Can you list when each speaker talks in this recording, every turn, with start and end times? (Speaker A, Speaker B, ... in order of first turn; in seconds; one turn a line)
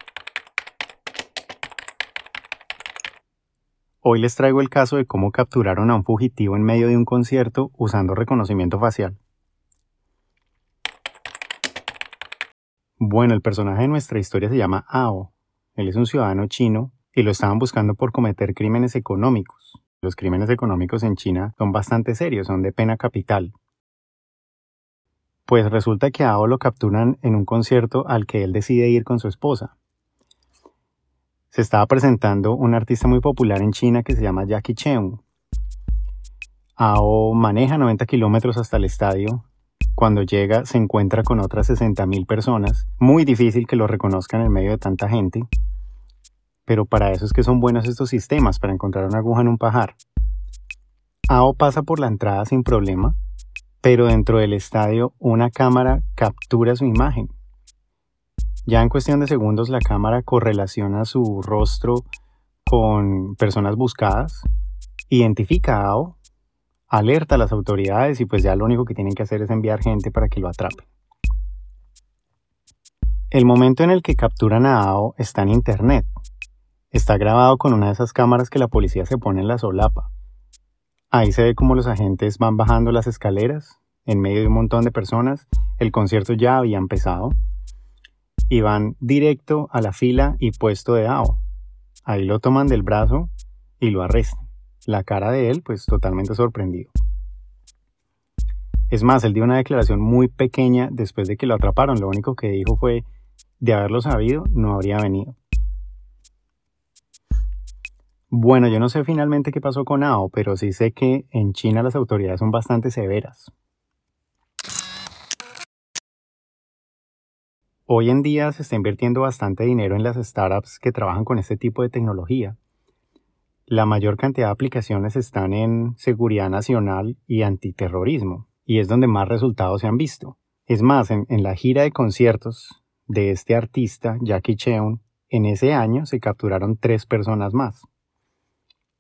Speaker A: 4.0-9.2
Speaker A: 13.0-23.6
Speaker A: 25.5-29.8
Speaker A: 31.5-35.2
Speaker A: 36.8-45.5
Speaker A: 46.7-50.0
Speaker A: 51.3-53.2
Speaker A: 53.8-57.3
Speaker A: 58.7-62.1
Speaker A: 62.7-64.5
Speaker A: 65.1-66.2
Speaker A: 66.9-70.9
Speaker A: 73.3-76.1
Speaker A: 76.9-80.1
Speaker A: 81.1-87.4
Speaker A: 88.5-91.4
Speaker A: 92.1-96.9
Speaker A: 98.9-103.1
Speaker A: 103.6-105.4
Speaker A: 108.3-113.5
Speaker A: 117.9-122.6
Speaker A: 123.7-137.9